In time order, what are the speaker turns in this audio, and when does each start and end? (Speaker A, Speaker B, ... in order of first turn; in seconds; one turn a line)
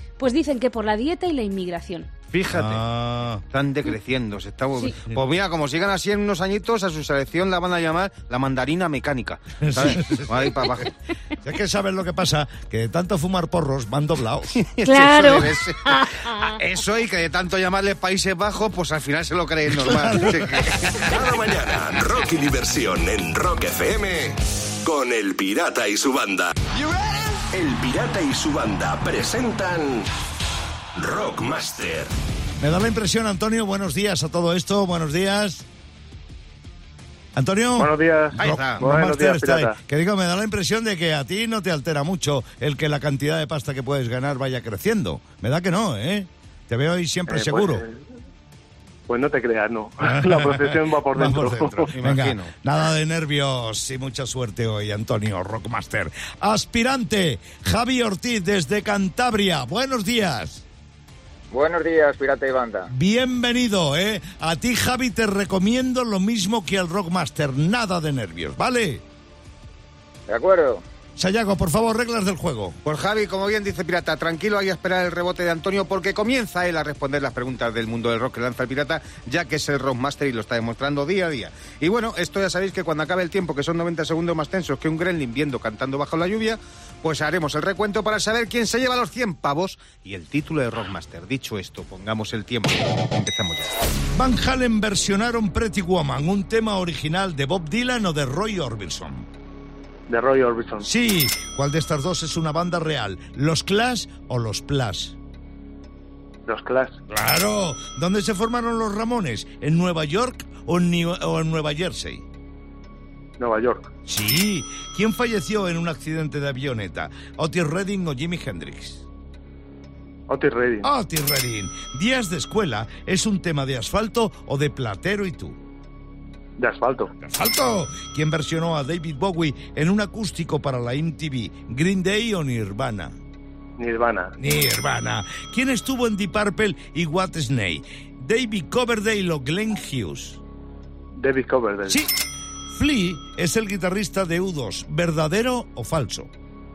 Speaker A: 0.2-2.1
Speaker B: 2.3-2.8
Speaker C: 2.5-3.4
Speaker B: 3.5-10.9
Speaker C: 9.6-10.5
Speaker C: 11.4-14.6
Speaker B: 14.6-21.1
Speaker A: 14.8-16.6
Speaker C: 19.7-20.9
Speaker D: 21.0-26.5
Speaker D: 27.5-30.1
Speaker D: 30.9-32.1
Speaker C: 32.6-35.6
Speaker C: 37.3-47.8
Speaker E: 37.8-39.8
Speaker B: 38.4-38.9
Speaker E: 47.3-48.0
Speaker E: 49.1-51.9
Speaker C: 50.0-60.6
Speaker B: 51.9-52.5
Speaker F: 61.5-62.9
Speaker C: 62.9-69.0
Speaker F: 70.3-70.8
Speaker C: 71.2-72.8
Speaker B: 72.8-93.8
Speaker C: 94.1-99.3
Speaker E: 100.1-100.9
Speaker C: 100.8-105.2
Speaker E: 106.5-107.0
Speaker C: 107.1-112.2
Speaker E: 113.4-113.9
Speaker C: 114.1-119.0
Speaker E: 120.3-120.9
Speaker C: 120.8-125.6
Speaker E: 126.6-127.1
Speaker C: 127.2-133.2
Speaker E: 133.8-134.3
Speaker C: 134.4-140.4
Speaker E: 141.2-142.0
Speaker C: 142.7-146.3